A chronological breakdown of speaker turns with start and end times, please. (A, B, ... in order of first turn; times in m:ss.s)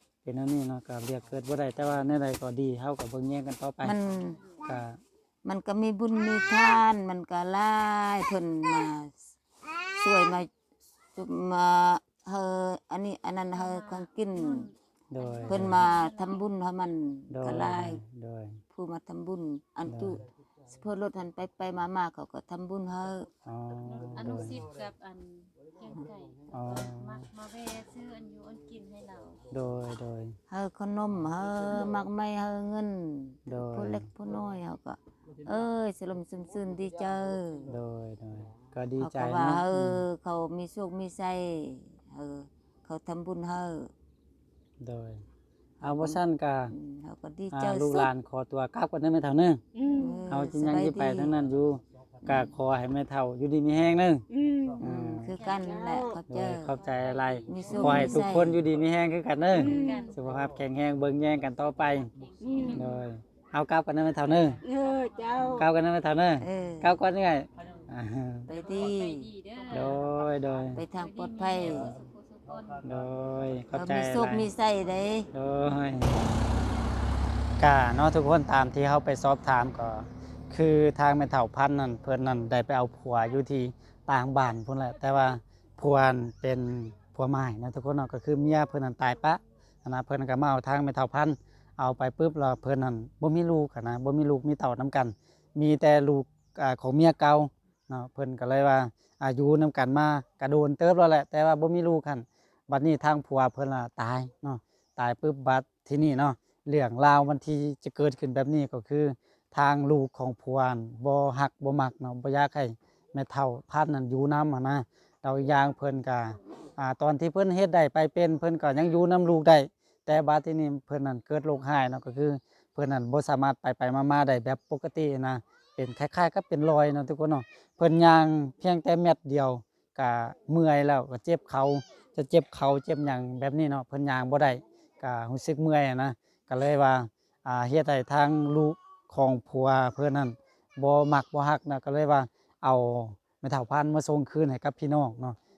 0:00.2-0:04.0 A
0:03.8-0:04.4 B
0:04.3-0:04.6 C
0:04.6-0:05.0 A
0:05.4-0:09.2 B
0:09.9-0:10.5 B
0:11.2-0:14.7 B
0:13.5-0:16.4 C
0:15.1-0:15.9 A
0:15.5-0:18.0 B
0:17.3-0:18.6 A
0:18.7-0:23.3 B
0:19.9-0:20.2 A
0:23.4-0:24.6 A
0:23.9-0:29.4 C
0:26.5-0:27.2 A
0:29.5-0:30.4 A
0:30.5-0:37.7 B
0:33.5-0:34.1 A
0:37.7-0:40.0 A
0:39.0-0:43.9 B
0:44.8-0:45.2 A
0:45.8-0:46.2 B
0:45.8-0:46.7 A
0:46.7-0:48.1 B
0:47.5-0:49.6 A
0:49.7-0:50.2 D
0:49.9-0:51.3 B
0:50.3-0:54.2 A
0:52.2-0:52.5 B
0:54.3-0:54.9 D
0:54.8-0:55.4 A
0:54.8-0:56.8 B
0:55.3-0:58.1 C
0:55.5-0:56.2 D
0:56.3-1:02.1 A
0:57.5-0:58.6 B
0:57.8-0:58.2 D
0:59.5-1:00.2 D
0:59.5-1:00.2 C
1:02.1-1:03.1 C
1:02.4-1:02.9 D
1:02.7-1:04.6 A
1:04.6-1:05.7 D
1:05.6-1:08.5 A
1:06.4-1:07.0 B
1:08.5-1:09.3 B
1:08.5-1:10.1 C
1:09.7-1:10.8 A
1:10.7-1:11.9 B
1:10.9-1:12.8 C
1:12.8-1:14.5 A
1:13.7-1:15.3 B
1:15.3-1:16.2 A
1:17.6-2:25.4 A